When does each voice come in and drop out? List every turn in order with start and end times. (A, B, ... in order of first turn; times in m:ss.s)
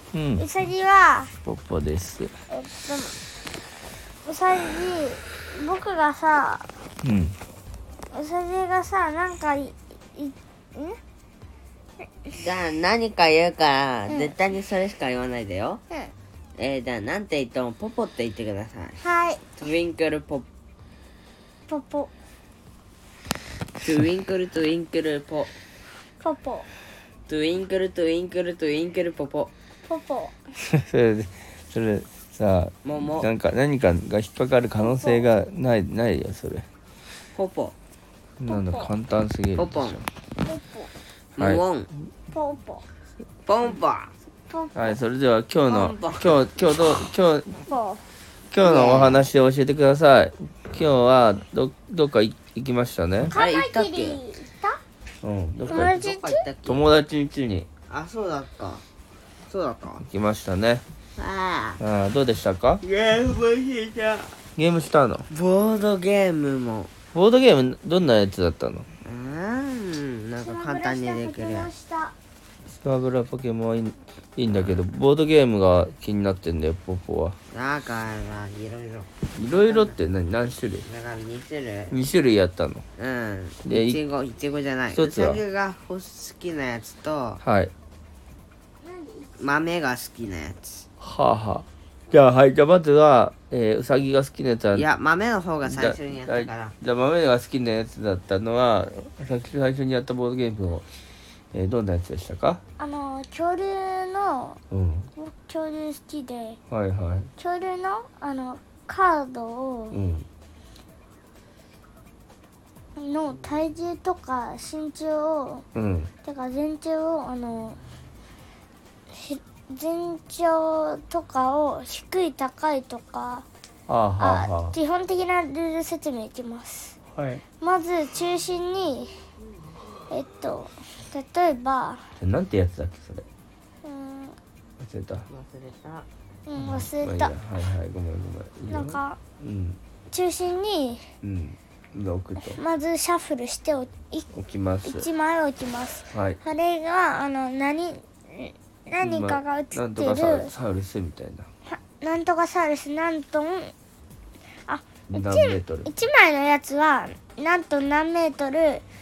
0:00.1-0:00.4 A
0:00.4-0:01.3 B
0:01.4-0:02.3 A
0:02.5-0:03.2 B
0:04.2-0:06.7 B
0:07.0-0:07.4 A
0:08.1-0:11.0 B
0:12.3-0:15.8 C
0:14.1-0:14.3 B
0:16.6-0:19.0 C
0:19.0-0:19.5 B
0:19.5-0:20.5 C
0:21.7-0:22.1 B
0:23.8-0:25.5 C
0:26.2-0:26.7 B
0:27.3-0:29.5 C
0:29.8-0:30.4 B
0:30.6-0:36.7 A
0:32.8-0:33.3 C
0:34.8-0:35.3 B
0:37.3-0:37.7 C
0:38.4-0:40.0 A
0:38.5-0:38.9 B
0:39.6-0:40.0 C
0:40.4-0:40.9 B
0:41.4-0:41.9 C
0:42.3-0:42.8 B
0:43.4-0:44.1 C
0:44.5-0:45.0 B
0:44.7-0:47.6 A
0:45.7-0:46.4 C
0:47.6-0:48.0 B
0:48.5-0:53.3 A
0:48.6-0:49.3 C
0:53.3-0:54.8 B
0:53.3-0:54.2 C
0:55.2-0:56.0 A
0:55.6-0:56.9 C
0:55.7-0:56.4 B
0:56.6-0:57.7 A
0:57.9-0:58.8 C
0:59.5-1:00.0 C
1:00.0-1:00.8 A
1:01.2-1:01.8 C
1:01.8-1:02.8 A
1:02.8-1:04.4 C
1:04.6-1:05.3 A
1:05.3-1:06.9 C
1:07.1-1:08.9 A
1:09.0-1:11.7 C
1:10.4-1:12.1 B
1:12.7-1:17.4 A
1:17.5-1:20.0 C
1:19.4-1:20.8 A
1:20.8-1:22.0 C
1:21.9-1:22.8 A
1:23.0-1:27.4 C
1:23.6-1:24.0 A
1:24.9-1:25.4 A
1:27.4-1:27.7 A
1:28.8-1:29.3 B
1:29.4-1:30.8 C
1:31.0-1:34.9 A
1:34.7-1:36.7 C
1:35.6-1:40.9 A
1:41.5-1:42.6 A
1:42.8-1:44.6 B
1:44.7-1:45.1 A
1:45.1-1:46.6 B
1:46.7-1:47.3 A
1:47.4-1:50.0 B
1:49.9-1:50.3 A
1:53.0-1:55.6 B
1:55.7-1:56.1 A
1:56.2-1:57.8 B
1:59.1-2:03.4 B
2:03.9-2:04.8 A
2:04.2-2:07.0 B
2:07.1-2:07.4 A
2:07.6-2:09.1 B
2:10.1-2:12.0 B
2:12.2-2:13.2 A
2:13.8-2:14.4 B
2:14.8-2:15.3 A
2:15.3-2:16.1 C
2:16.5-2:17.3 B
2:16.6-2:19.8 A
2:18.7-2:19.2 B
2:20.1-2:21.0 B
2:21.2-2:22.6 A
2:22.4-2:24.3 B
2:24.3-2:25.1 A
2:24.8-2:30.5 B
2:26.1-2:26.4 A
2:29.0-2:31.5 A
2:31.6-2:33.7 B
2:34.6-2:38.8 B
2:35.1-2:35.9 A